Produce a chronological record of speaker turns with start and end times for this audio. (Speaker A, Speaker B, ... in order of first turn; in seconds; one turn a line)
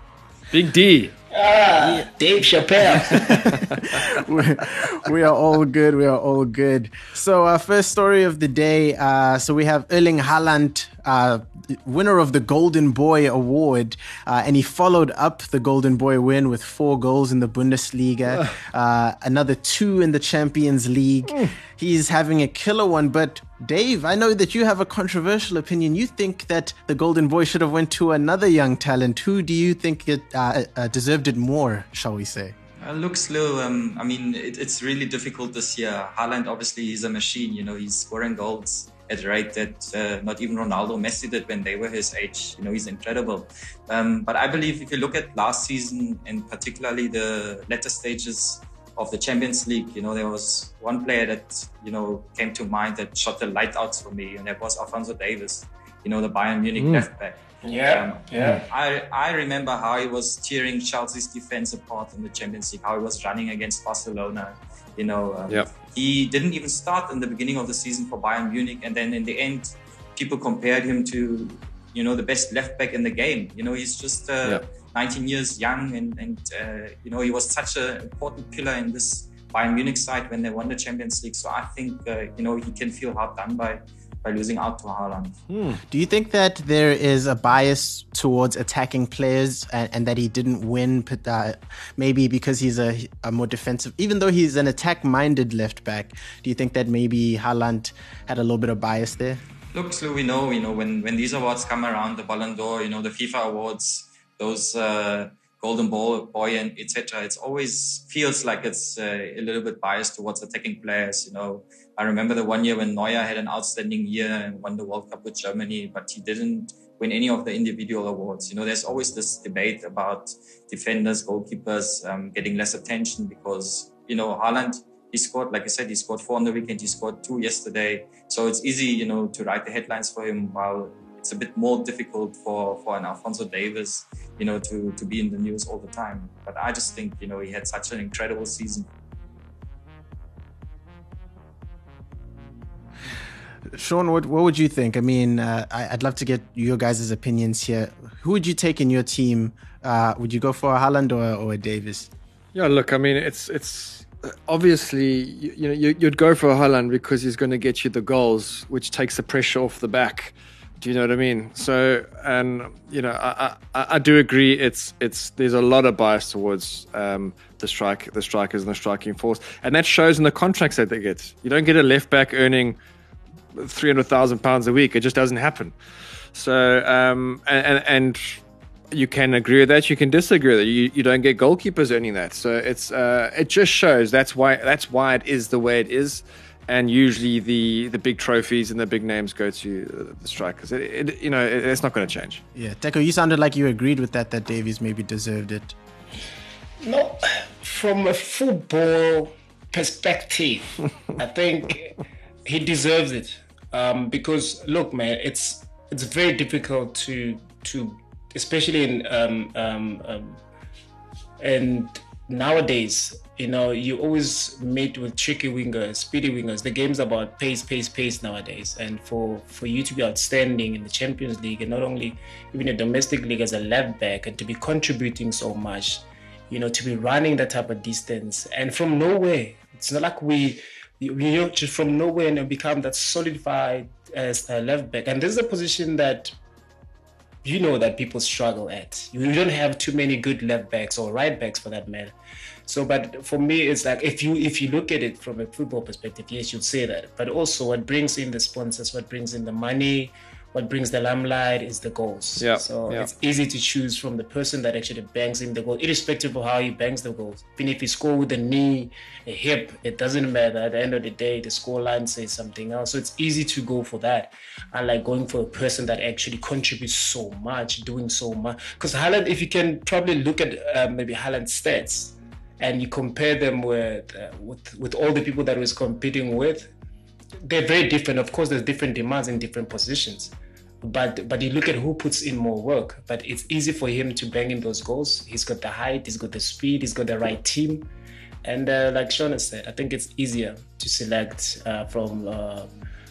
Speaker A: 0.5-1.1
Speaker B: 1.3-3.3
Speaker C: 2.8-32.6
Speaker A: 3.5-4.1
Speaker D: 32.8-85.4
Speaker A: 56.8-57.1
Speaker B: 57.6-58.6
Speaker A: 85.5-85.8
Speaker C: 85.9-99.4
Speaker D: 99.7-138.9
Speaker C: 143.7-152.1
Speaker A: 152.5-172.8
Speaker A: 173.6-175.7
Speaker A: 176.3-178.4
Speaker A: 178.9-192.4
Speaker C: 192.6-195.8
Speaker B: 196.8-210.4
Speaker B: 211.4-236.3
Speaker B: 237.4-242.1
Speaker B: 242.7-276.7
Speaker A: 252.4-253.1
Speaker B: 277.4-287.9
Speaker B: 288.4-292.7